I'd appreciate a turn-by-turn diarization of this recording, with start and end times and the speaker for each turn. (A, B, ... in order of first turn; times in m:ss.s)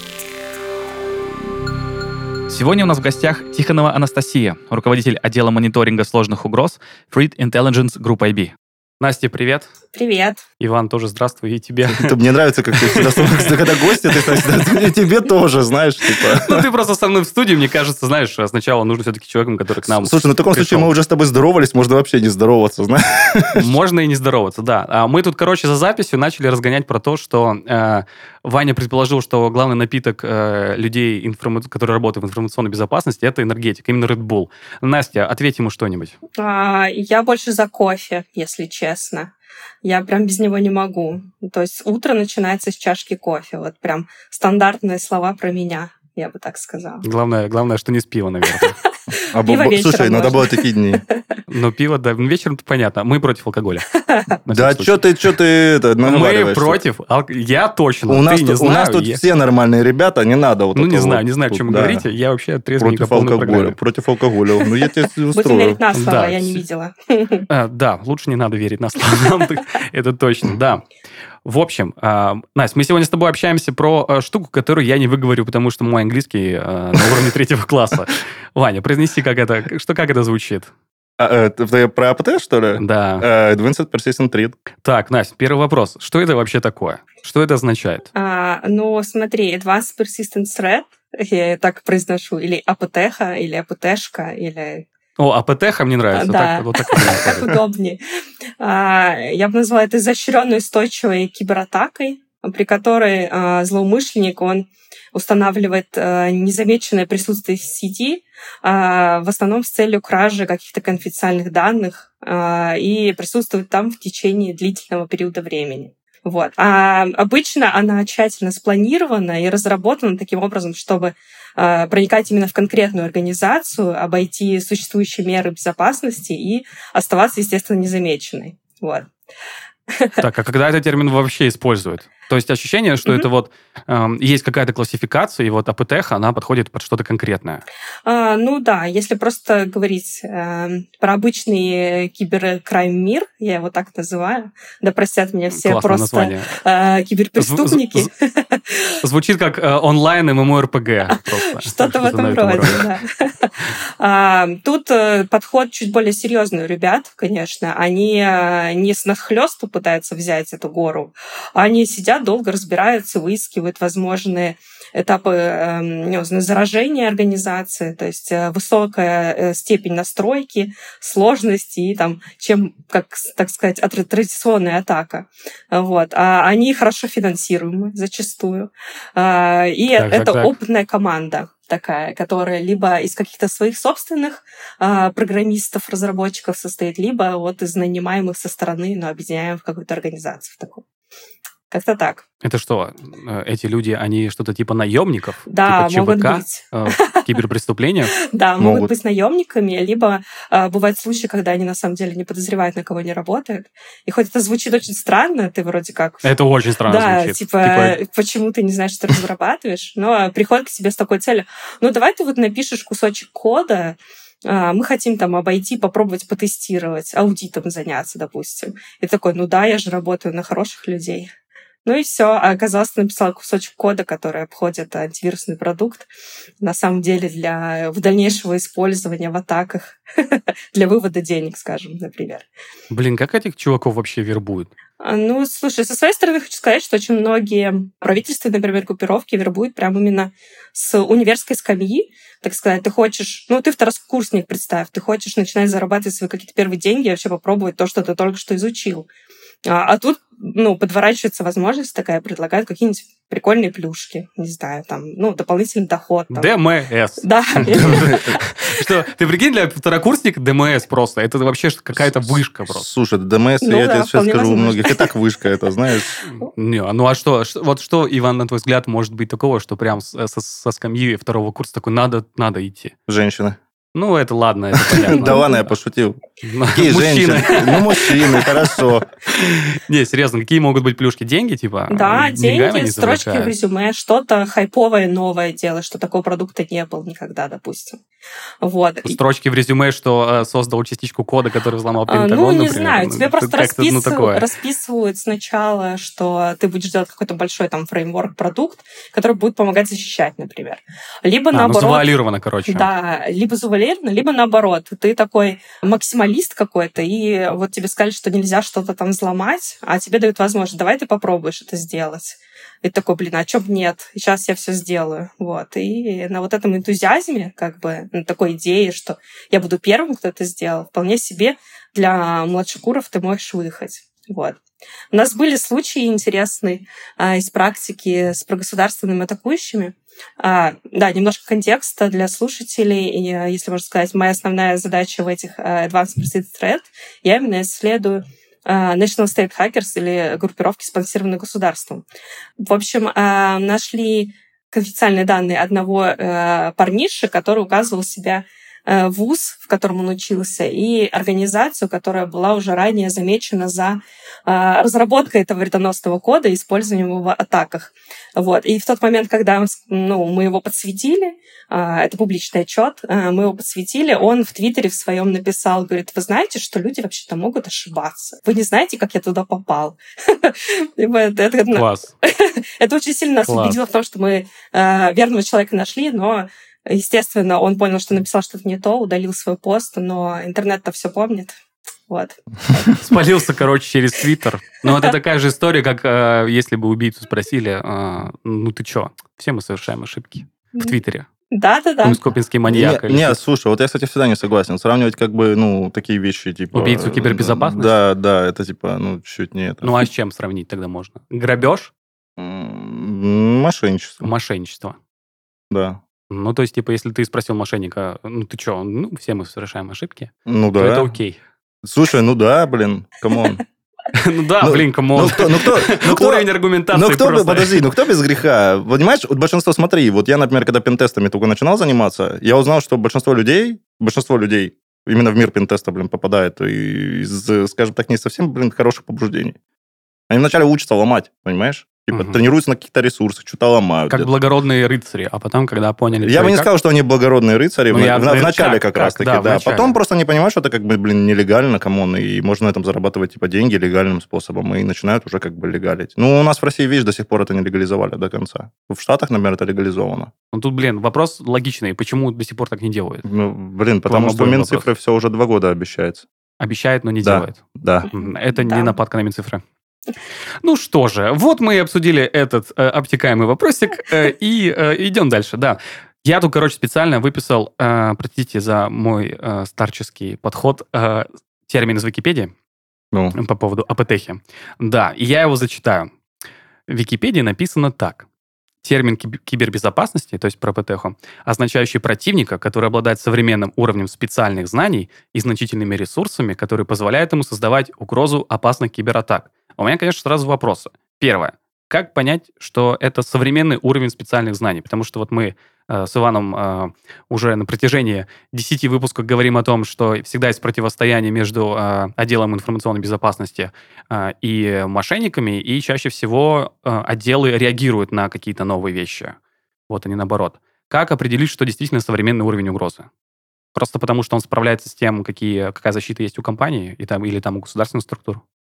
0:02.5-0:09.7 A
0:09.9-0:10.4 B
0:10.6-0:12.2 A
0:11.9-0:16.6 C
0:12.7-0:14.7 A
0:16.2-0:20.9 A
0:19.8-0:23.7 C
0:23.6-0:36.2 A
0:36.4-0:47.0 B
0:47.0-0:48.8 A
0:49.1-0:51.3 B
0:49.3-0:51.0 C
0:51.5-0:55.0 A
0:54.5-0:56.8 C
0:56.0-0:59.2 A
0:58.1-1:02.1 C
1:00.7-1:03.8 A
1:02.8-1:05.8 C
1:05.3-1:07.5 B
1:05.9-1:06.6 A
1:07.5-1:10.9 A
1:11.4-1:20.7 A
1:21.2-1:24.6 C
1:22.8-1:23.3 A
1:24.8-1:28.1 A
1:28.1-1:34.9 B
1:35.2-1:37.5 A
1:36.1-1:38.0 B
1:38.6-2:09.1 B
2:09.9-2:10.2 B
2:10.2-2:17.6 A
2:18.0-2:29.0 B
2:25.5-2:26.6 A
2:27.4-2:28.1 A
2:29.0-2:32.8 A
2:31.2-3:10.8 B
3:00.0-3:00.5 A
3:11.7-3:12.2 B
3:12.4-3:18.2 A
3:15.5-3:17.2 B
3:18.2-3:26.3 B
3:18.6-3:18.9 C
3:26.2-3:28.0 A
3:26.8-3:41.3 B
3:41.8-3:46.1 B
3:46.6-3:52.4 B
3:52.9-3:54.7 A
3:55.0-4:09.1 B
4:09.6-4:16.6 B
4:16.3-4:22.9 A
4:17.2-4:18.6 B
4:17.8-4:18.3 C
4:21.9-4:26.1 C
4:23.6-4:25.1 B
4:26.2-4:32.9 A
4:33.1-4:33.6 C
4:33.9-4:35.4 A
4:34.9-4:36.2 C
4:35.2-4:35.5 B
4:36.4-4:38.5 A
4:36.7-4:39.1 C
4:39.3-4:43.5 A
4:41.9-4:48.0 B
4:48.6-4:49.2 B
4:49.0-4:54.4 A
4:52.1-5:02.1 B
5:01.5-5:02.9 A
5:02.7-5:24.6 B
5:25.1-5:42.0 B
5:42.6-6:21.5 B
6:11.7-6:12.1 A
6:13.4-6:13.8 A
6:22.1-6:23.0 B
6:23.0-6:31.3 A
6:31.5-6:32.2 B
6:32.0-6:33.4 A
6:32.7-6:40.0 C
6:36.7-6:38.0 A
6:39.8-6:41.9 A
6:42.4-6:44.3 C
6:44.2-6:45.0 A
6:45.7-6:46.0 C
6:46.3-6:51.4 A
6:50.4-6:51.1 C
6:51.8-6:53.6 C
6:54.1-6:57.8 A
6:54.6-7:09.6 C
7:10.3-7:14.3 C
7:12.1-7:12.4 A
7:14.1-7:16.7 A
7:16.1-7:30.3 C
7:17.9-7:19.9 A
7:30.5-7:33.2 A
7:33.2-7:36.2 C
7:34.0-7:34.9 A
7:36.6-7:39.6 A
7:37.2-7:38.1 C
7:38.2-7:38.9 B
7:40.6-7:52.5 A
7:53.3-7:56.1 A
7:56.9-7:58.2 A
7:58.8-8:29.4 A
8:29.9-8:33.1 A
8:33.7-8:38.4 A